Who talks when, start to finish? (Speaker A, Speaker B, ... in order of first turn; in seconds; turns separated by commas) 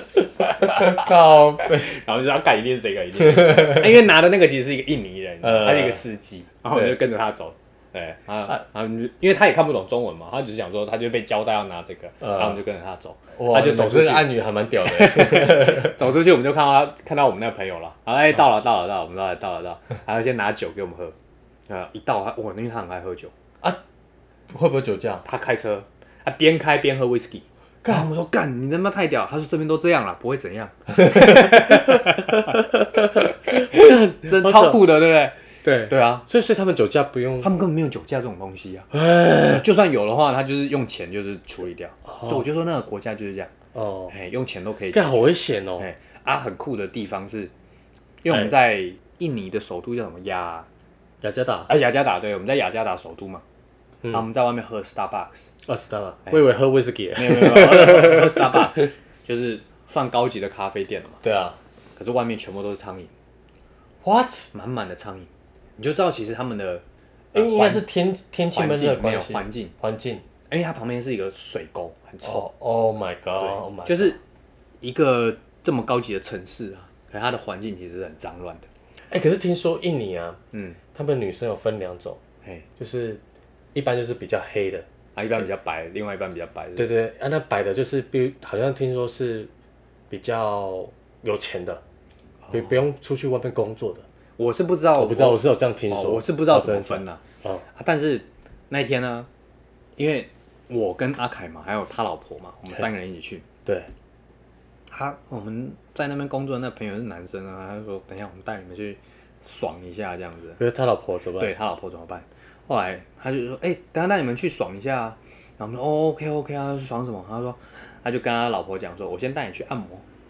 Speaker A: 0.4-14.3, Speaker B: 0.6-1.9, Speaker B: 3.3-3.9, Speaker B: 5.4-6.0, Speaker B: 6.7-7.0, Speaker B: 12.2-12.6, Speaker B: 13.4-16.0, Speaker A: 14.8-21.1, Speaker A: 21.7-23.3, Speaker B: 24.5-25.2, Speaker A: 25.2-32.6, Speaker B: 31.0-34.9, Speaker A: 33.5-35.4, Speaker B: 35.6-37.5, Speaker A: 35.9-36.2, Speaker A: 37.4-43.5, Speaker B: 38.9-39.7, Speaker B: 42.1-42.5, Speaker B: 43.7-44.1, Speaker A: 44.1-47.5, Speaker B: 44.9-45.9, Speaker A: 48.2-50.7, Speaker B: 51.2-51.7, Speaker A: 51.7-53.4, Speaker A: 54.1-55.5, Speaker B: 55.6-58.9, Speaker A: 57.1-61.2, Speaker B: 61.2-61.6, Speaker A: 62.0-63.1, Speaker B: 64.0-64.5, Speaker A: 64.5-67.8, Speaker B: 67.3-70.2, Speaker A: 68.5-69.7, Speaker A: 70.5-72.5, Speaker B: 72.2-74.2, Speaker A: 73.4-74.2, Speaker A: 74.8-78.7, Speaker B: 79.1-80.4, Speaker A: 80.5-80.8, Speaker B: 80.9-82.2, Speaker B: 82.8-83.2, Speaker B: 83.7-84.9, Speaker A: 85.2-86.9, Speaker B: 86.8-89.5, Speaker B: 90.1-91.8, Speaker A: 92.4-92.8, Speaker B: 92.5-94.1, Speaker A: 94.4-97.2, Speaker B: 95.0-97.6, Speaker A: 97.7-99.3, Speaker A: 100.0-103.5, Speaker B: 103.7-103.9, Speaker A: 104.9-110.6, Speaker B: 110.6-111.5, Speaker A: 111.4-120.0